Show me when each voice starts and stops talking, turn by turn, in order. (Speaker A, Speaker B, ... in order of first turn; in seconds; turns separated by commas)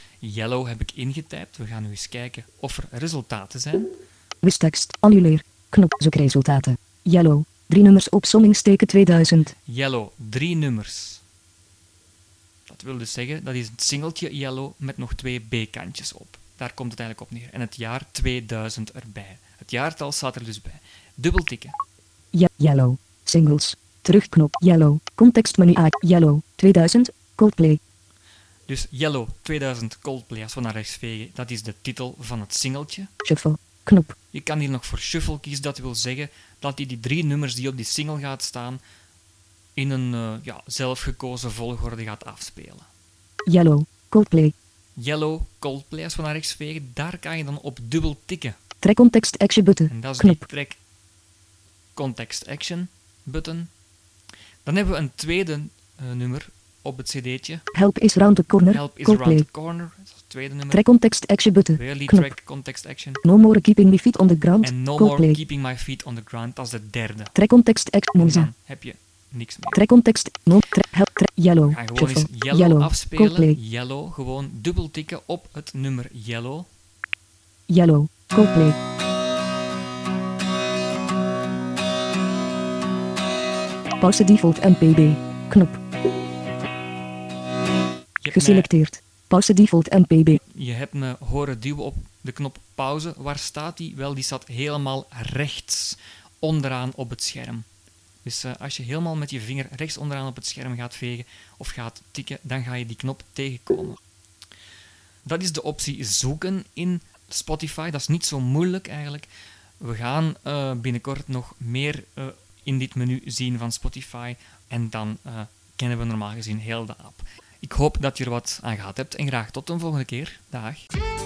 Speaker A: 0.2-4.0, Speaker B: 4.4-9.5, Speaker A: 9.7-11.2, Speaker A: 12.7-21.8, Speaker B: 22.3-27.8, Speaker A: 28.7-33.1, Speaker B: 33.2-34.1, Speaker A: 34.3-38.8, Speaker A: 39.8-42.9, Speaker B: 43.5-44.5, Speaker A: 45.0-48.6, Speaker B: 48.8-50.4, Speaker A: 49.9-50.8, Speaker A: 52.0-53.7, Speaker A: 54.6-57.6, Speaker B: 57.7-59.5, Speaker A: 58.7-60.8, Speaker B: 60.7-62.4, Speaker A: 61.7-63.2, Speaker B: 63.2-65.4, Speaker A: 64.6-67.3, Speaker B: 67.3-68.5, Speaker A: 68.2-69.8, Speaker B: 69.7-73.6, Speaker A: 71.7-76.7, Speaker B: 77.7-78.8, Speaker B: 84.0-85.8, Speaker A: 88.2-88.7, Speaker B: 88.3-90.4, Speaker A: 90.5-97.6, Speaker A: 98.2-104.0, Speaker A: 105.2-109.3, Speaker A: 109.8-120.9